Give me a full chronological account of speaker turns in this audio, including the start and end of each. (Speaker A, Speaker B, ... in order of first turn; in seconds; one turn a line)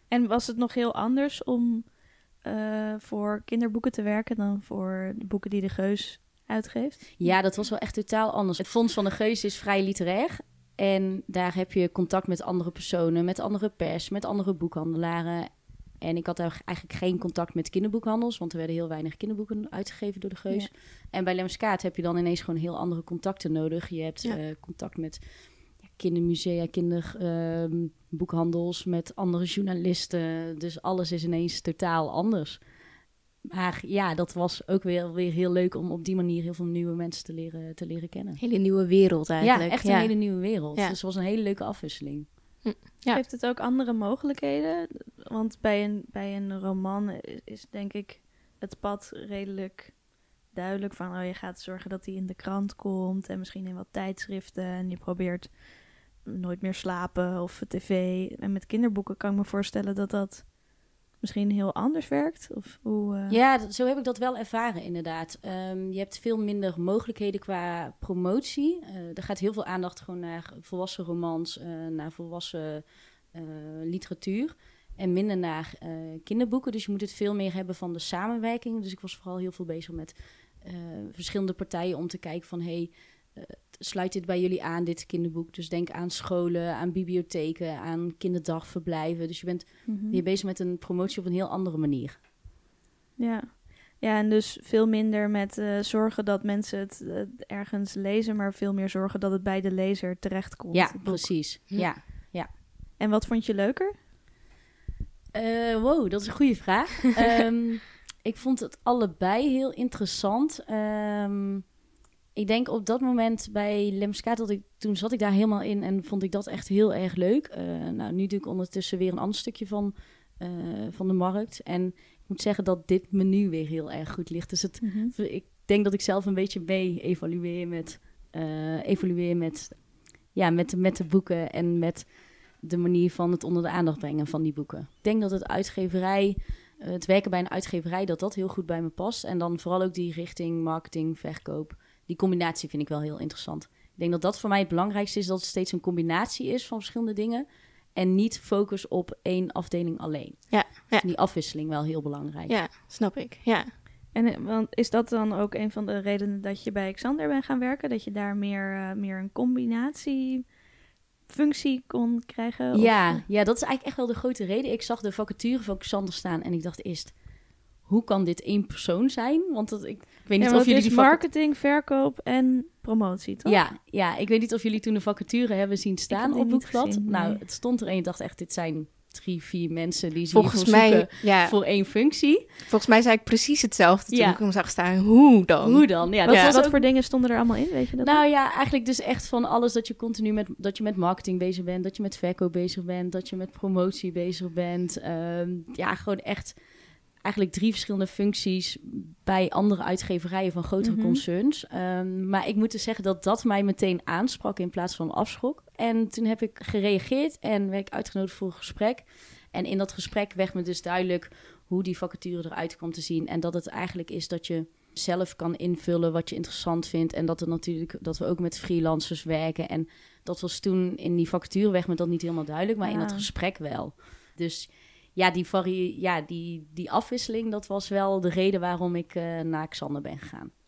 Speaker A: 0.1-7.3
Speaker B: 7.2-25.2
Speaker B: 25.8-32.6
Speaker B: 33.5-38.4
Speaker C: 38.4-41.0
Speaker B: 39.4-42.3
Speaker C: 42.6-43.2
Speaker A: 43.1-63.4
Speaker B: 63.3-92.2
Speaker A: 89.9-90.2
Speaker A: 93.2-101.4
Speaker B: 100.7-102.5
Speaker A: 103.0-104.0
Speaker B: 105.3-111.7
Speaker B: 112.3-152.6
Speaker A: 124.8-125.1
Speaker C: 150.5-151.1
Speaker C: 152.5-153.7
Speaker A: 154.1-160.6
Speaker A: 161.3-163.2
Speaker B: 162.7-167.2
Speaker B: 167.8-171.2
Speaker A: 170.4-173.6
Speaker B: 173.4-182.5
Speaker A: 176.1-177.4
Speaker C: 180.3-181.6
Speaker C: 182.7-186.6
Speaker B: 184.1-184.4
Speaker B: 185.6-186.9
Speaker A: 186.2-188.2
Speaker B: 188.0-196.6
Speaker B: 197.2-230.5
Speaker A: 200.8-201.2
Speaker A: 222.8-223.3